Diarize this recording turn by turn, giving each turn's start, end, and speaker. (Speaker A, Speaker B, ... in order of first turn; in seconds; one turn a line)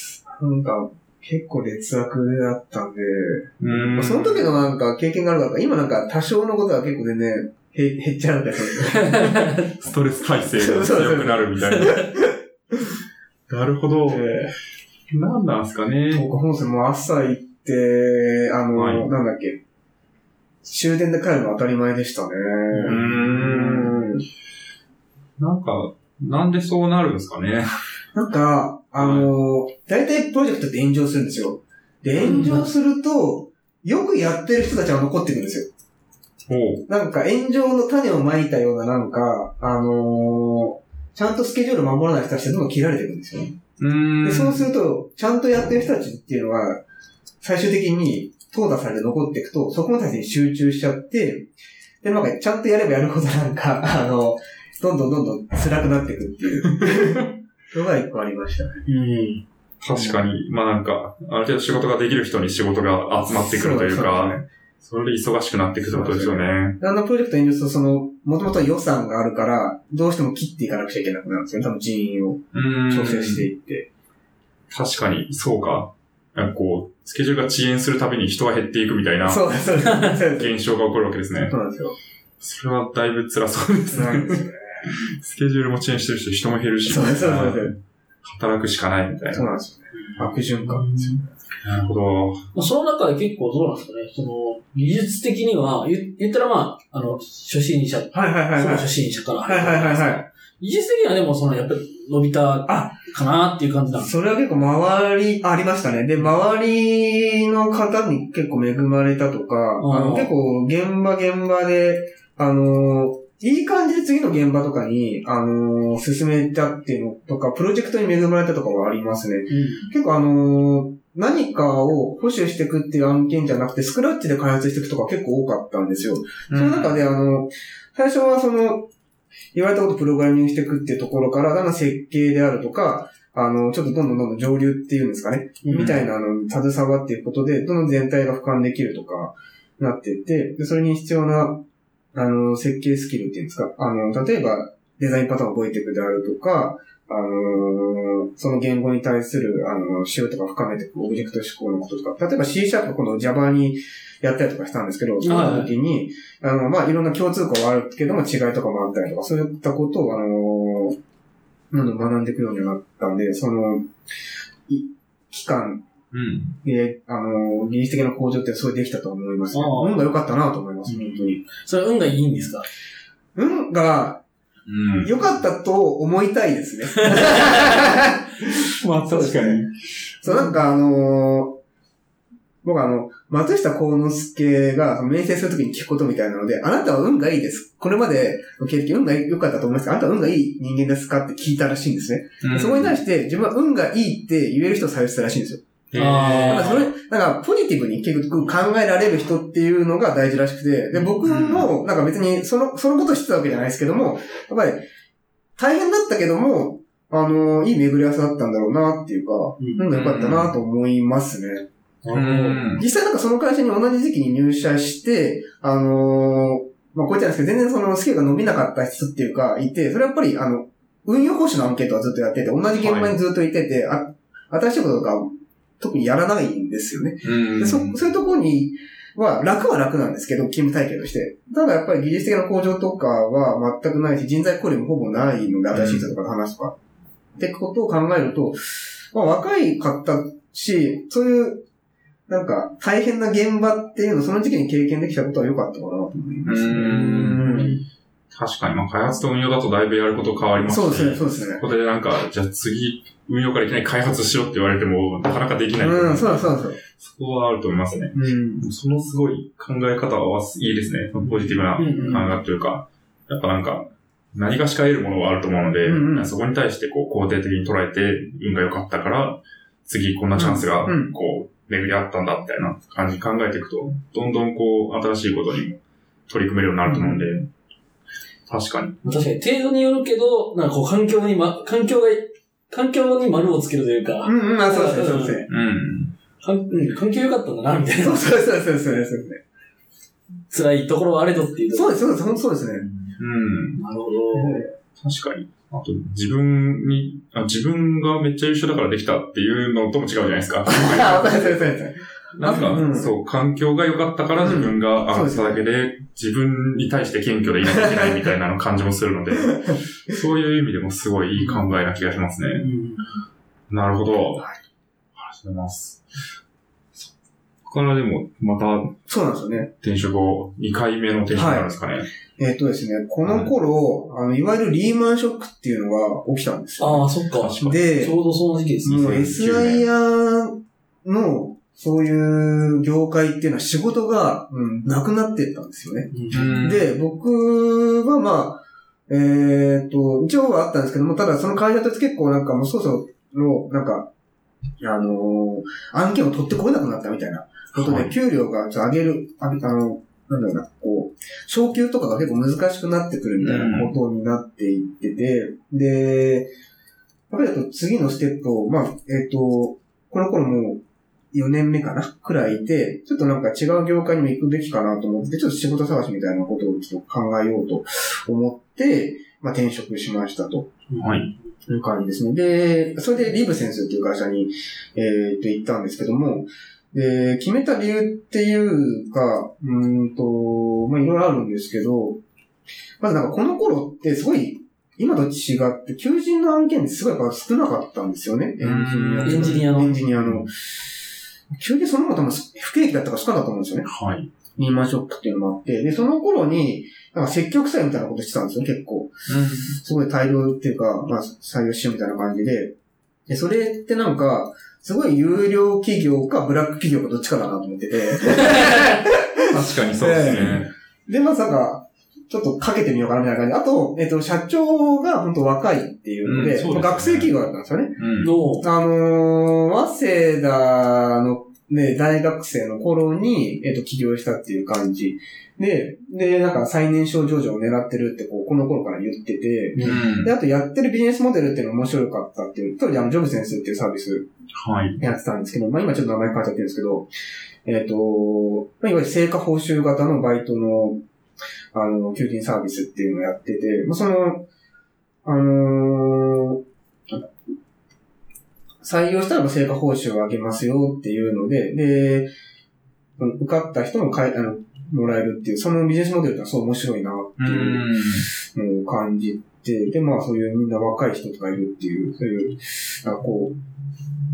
Speaker A: 0.3-9.5
Speaker B: 3.6-4.5
Speaker C: 9.1-9.6
Speaker B: 9.7-12.2
Speaker A: 10.6-13.0
Speaker B: 13.5-14.4
Speaker A: 14.1-14.5
Speaker B: 15.1-16.3
Speaker A: 16.1-19.6
Speaker B: 18.8-19.1
Speaker A: 20.6-24.2
Speaker B: 22.8-24.0
Speaker B: 25.4-27.7
Speaker A: 28.1-35.7
Speaker B: 29.0-29.3
Speaker C: 32.2-32.7
Speaker B: 36.5-36.9
Speaker A: 36.9-43.6
Speaker B: 43.8-44.7
Speaker A: 44.2-46.8
Speaker A: 47.4-51.5
Speaker A: 52.0-58.9
Speaker B: 56.7-57.3
Speaker C: 58.9-59.4
Speaker B: 59.8-66.8
Speaker A: 59.9-60.2
Speaker A: 63.3-64.5
Speaker A: 65.9-73.9
Speaker B: 72.5-73.5
Speaker B: 74.7-79.5
Speaker A: 79.2-80.5
Speaker B: 80.0-81.5
Speaker A: 81.5-82.0
Speaker B: 82.4-89.5
Speaker A: 83.9-84.8
Speaker A: 86.9-87.7
Speaker A: 89.3-91.3
Speaker C: 90.0-91.2
Speaker B: 91.6-92.5
Speaker C: 92.5-104.1
Speaker A: 98.1-98.9
Speaker A: 99.5-100.2
Speaker A: 102.7-103.0
Speaker A: 104.0-128.9
Speaker C: 109.8-110.3
Speaker C: 119.5-119.9
Speaker B: 126.5-127.0
Speaker A: 129.5-141.6
Speaker C: 135.6-136.0
Speaker A: 142.1-161.0
Speaker C: 155.2-155.7
Speaker A: 161.7-163.9
Speaker A: 164.7-165.8
Speaker B: 166.1-166.6
Speaker A: 166.6-171.4
Speaker C: 169.5-170.0
Speaker C: 170.9-172.7
Speaker A: 173.3-174.2
Speaker B: 174.7-175.2
Speaker A: 175.0-179.6
Speaker C: 176.9-177.8
Speaker B: 178.8-179.6
Speaker C: 179.0-179.6
Speaker A: 180.2-181.6
Speaker A: 182.6-195.6
Speaker B: 192.4-193.0
Speaker B: 195.9-196.9
Speaker C: 196.0-196.8
Speaker A: 196.4-204.9
Speaker B: 201.2-201.7
Speaker A: 205.6-211.7
Speaker C: 209.6-209.9
Speaker B: 209.9-210.6
Speaker C: 212.1-212.6
Speaker B: 212.1-212.8
Speaker A: 212.4-236.8
Speaker B: 222.8-223.2
Speaker B: 227.2-228.0
Speaker B: 235.7-236.1
Speaker A: 237.4-241.6
Speaker A: 242.3-247.8
Speaker B: 246.4-247.7
Speaker C: 247.0-247.8
Speaker B: 248.3-277.5
Speaker A: 250.6-251.6
Speaker A: 255.8-256.8
Speaker A: 258.1-258.6
Speaker C: 261.8-262.3
Speaker A: 262.0-262.3
Speaker A: 265.8-266.3
Speaker A: 270.4-271.1
Speaker A: 276.9-277.3
Speaker B: 278.5-279.0
Speaker C: 279.0-285.4
Speaker A: 284.2-285.5
Speaker B: 285.5-286.1
Speaker C: 286.4-288.3
Speaker A: 288.0-289.4
Speaker C: 290.5-292.2
Speaker A: 291.7-292.9
Speaker C: 292.8-293.2
Speaker B: 293.2-293.8
Speaker C: 293.8-294.6
Speaker A: 294.3-294.7
Speaker B: 295.0-301.8
Speaker A: 300.7-303.1
Speaker B: 302.3-312.7
Speaker A: 304.4-305.6
Speaker A: 307.6-308.3
Speaker A: 309.4-309.8
Speaker C: 312.6-313.2
Speaker B: 313.7-314.5
Speaker B: 315.2-316.0
Speaker B: 317.6-319.0
Speaker A: 319.1-319.7
Speaker B: 319.8-322.1
Speaker A: 321.3-321.7
Speaker A: 322.4-328.2
Speaker B: 323.2-323.5
Speaker C: 326.8-329.2
Speaker B: 327.4-327.8
Speaker A: 328.9-344.1
Speaker B: 328.9-329.9
Speaker C: 336.1-336.7
Speaker B: 336.3-336.9
Speaker A: 344.8-356.5
Speaker B: 347.7-348.1
Speaker B: 353.4-353.9
Speaker A: 357.3-360.8
Speaker A: 361.3-370.7
Speaker C: 370.9-371.3
Speaker B: 371.0-371.3
Speaker A: 371.7-382.2
Speaker A: 383.0-390.9
Speaker B: 388.6-390.4
Speaker C: 389.2-390.0
Speaker A: 391.5-393.9
Speaker B: 393.9-394.3
Speaker A: 394.6-399.1
Speaker B: 399.3-399.8
Speaker A: 399.7-402.8
Speaker A: 403.3-418.0
Speaker B: 409.5-410.7
Speaker B: 416.2-417.3
Speaker B: 418.0-418.3
Speaker C: 418.2-418.7
Speaker A: 418.6-434.3
Speaker C: 429.8-430.1
Speaker B: 429.8-430.3
Speaker B: 434.6-435.0
Speaker A: 435.0-437.1
Speaker A: 437.6-441.0
Speaker A: 441.7-444.5
Speaker A: 445.2-447.3
Speaker A: 448.8-452.3
Speaker A: 453.2-463.6
Speaker B: 457.4-458.3